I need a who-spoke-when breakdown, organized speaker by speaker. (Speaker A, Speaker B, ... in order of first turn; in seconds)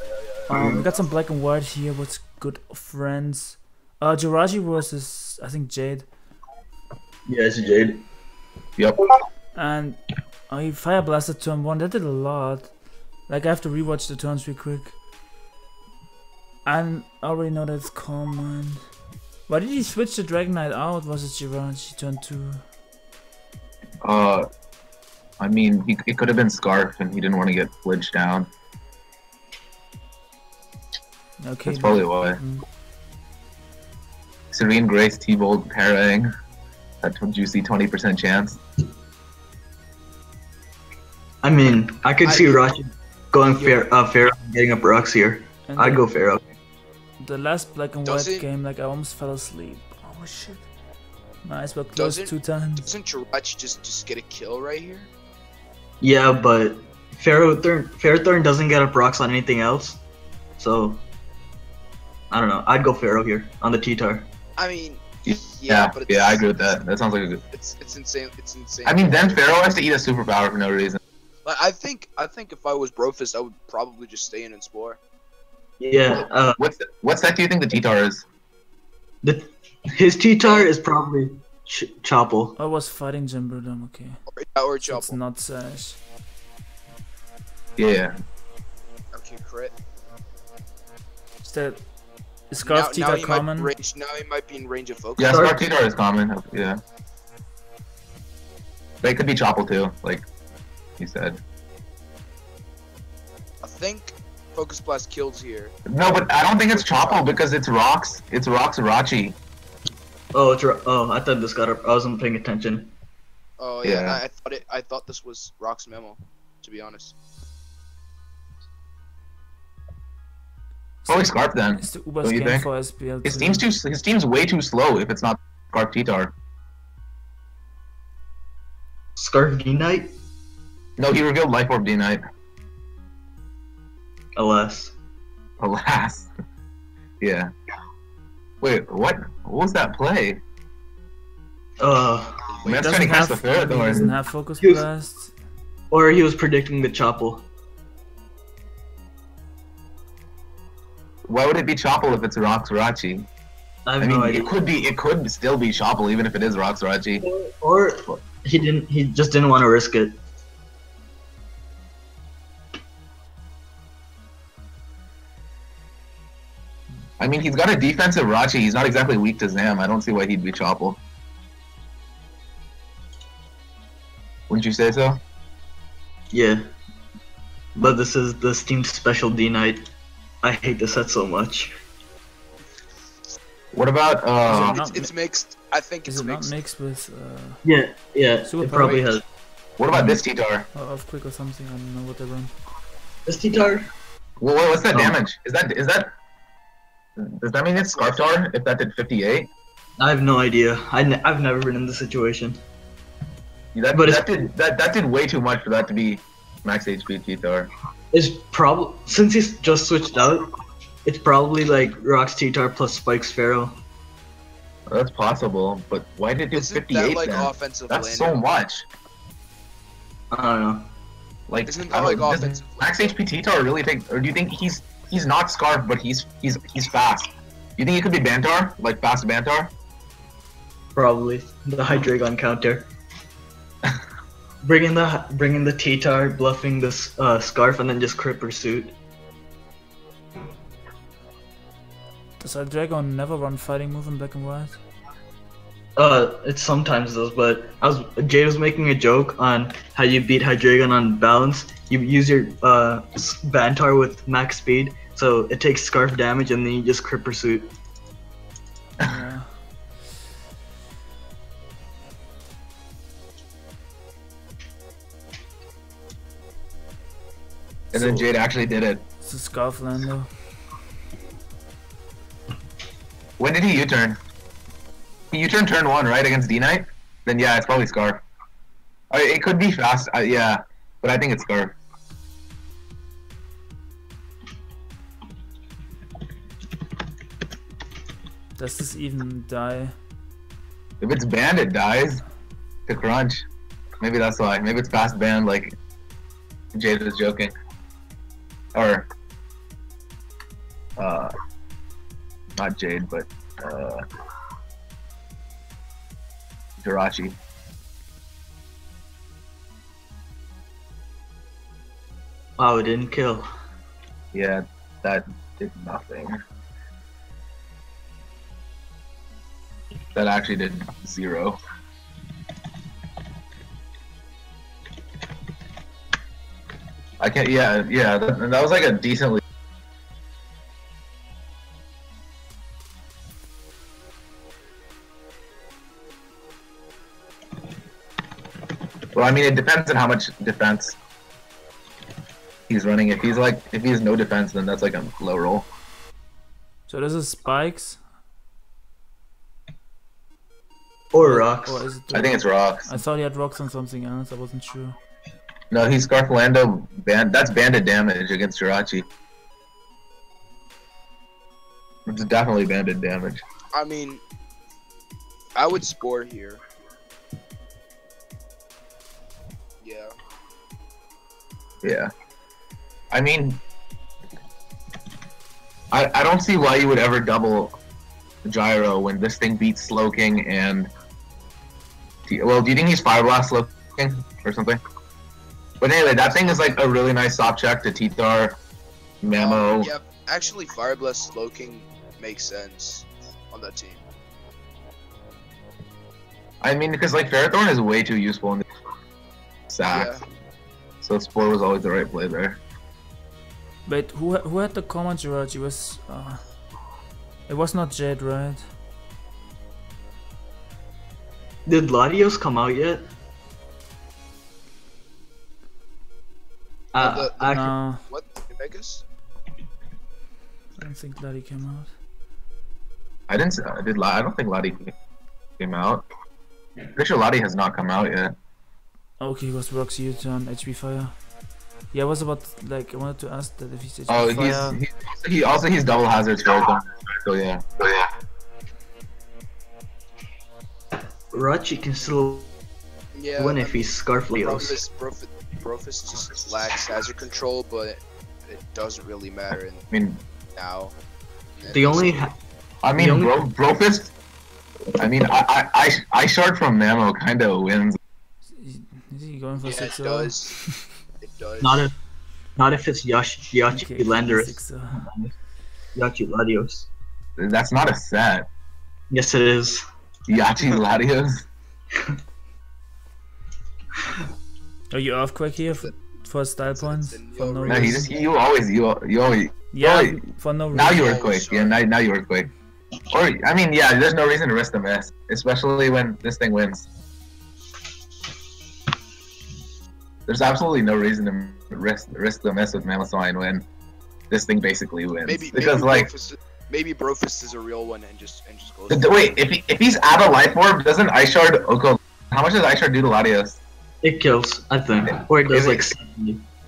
Speaker A: 0.5-0.9, 7.3-8.1, 41.4-46.5, 56.0-60.0, 60.6-61.0, 62.3-64.3, 75.8-76.6, 79.2-82.5, 95.3-95.6, 110.3-112.9, 129.2-130.2, 134.3-134.9, 141.8-142.3, 144.6-144.8, 145.9-147.5, 153.9-154.5, 157.2-160.2, 176.3-176.7, 177.8-179.8, 180.4-181.7, 187.6-189.2, 193.3-193.9, 200.0-202.6, 203.9-204.3, 208.1-210.4, 211.1-213.8, 220.3-220.9, 230.9-232.9, 234.6-239.0, 246.0-257.7, 312.6-313.5, 351.1-351.9, 411.7-413.1, 416.9-417.7, 441.3-442.5, 443.4-444.8, 451.7-452.4, 453.0-453.3, 461.6-461.9, 462.6-465.4, 465.9-466.9, 469.1-469.8, 504.0-506.4
Speaker B: 0.6-6.1, 9.6-15.0, 16.6-18.9, 19.5-22.7, 31.4-32.6, 45.7-46.1, 47.2-50.7, 51.4-52.9, 82.6-84.2, 84.8-86.0, 91.4-91.8, 92.5-93.7, 121.0-123.7, 142.7-145.3, 184.5-185.1, 186.1-187.6, 188.4-189.2, 189.9-190.2, 190.7-192.5, 242.4-244.8, 259.0-259.7, 267.9-268.3, 269.2-270.3, 288.6-290.0, 346.9-348.0, 351.2-355.0, 403.9-406.5, 407.5-408.7, 417.5-418.0, 420.8-421.9, 429.2-431.3, 431.8-434.8, 458.5-460.9, 463.7-465.1, 474.9-478.1, 479.7-481.1
Speaker C: 24.0-24.5, 25.4-28.5, 31.7-32.4, 34.5-36.3, 37.0-38.6, 65.3-67.4, 68.8-71.0, 76.5-78.2, 87.8-88.2, 95.2-96.8, 99.0-100.3, 101.0-101.4, 105.9-109.4, 113.8-114.2, 121.1-122.7, 123.2-126.3, 131.0-132.2, 135.6-136.3, 137.2-137.5, 138.6-140.4, 142.7-144.1, 151.3-153.3, 154.0-157.2, 167.2-171.0, 174.5-175.2, 183.7-184.8, 189.8-190.7, 194.4-196.1, 197.2-199.5, 203.7-207.7, 214.9-218.9, 221.5-229.7, 267.9-269.0, 273.4-274.2, 275.3-278.2, 279.1-281.8, 291.0-292.2, 292.9-293.4, 294.0-295.8, 296.7-297.5, 298.7-299.1, 301.0-301.3, 302.6-304.0, 306.8-307.4, 314.3-316.4, 320.1-321.6, 327.2-329.4, 339.1-341.0, 342.7-345.7, 352.1-353.0, 355.7-359.1, 362.1-363.4, 371.8-372.1, 373.1-373.6, 375.9-377.8, 378.4-380.9, 382.3-384.8, 385.8-388.6, 389.2-389.9, 396.6-398.6, 399.7-400.1, 401.0-402.6, 423.3-424.9, 425.6-426.1, 426.9-428.3, 434.1-437.6, 449.9-450.2, 452.8-454.1, 455.0-458.0, 467.4-468.5, 470.3-471.4, 477.7-480.2, 480.7-482.5, 483.1-486.9, 490.3-493.7, 494.3-496.1, 498.9-503.6, 505.1-505.9
Speaker D: 42.2-42.7, 43.6-43.9, 48.0-48.5, 52.0-55.1, 64.6-66.8, 67.5-69.6, 71.5-75.0, 80.4-80.7, 84.3-85.2, 89.1-89.8, 92.6-95.6, 103.6-105.7, 106.6-107.3, 113.6-117.2, 142.2-143.1, 184.5-186.6, 197.8-198.4, 216.5-218.5, 221.7-223.1, 363.7-364.2, 365.6-366.6, 369.8-370.1, 386.0-386.9, 389.4-394.0, 399.9-400.2, 417.0-419.0, 443.1-449.8, 450.6-451.0, 451.6-452.3, 459.6-460.6, 461.2-461.9, 475.6-475.9, 476.7-478.3, 480.9-481.8, 495.2-499.3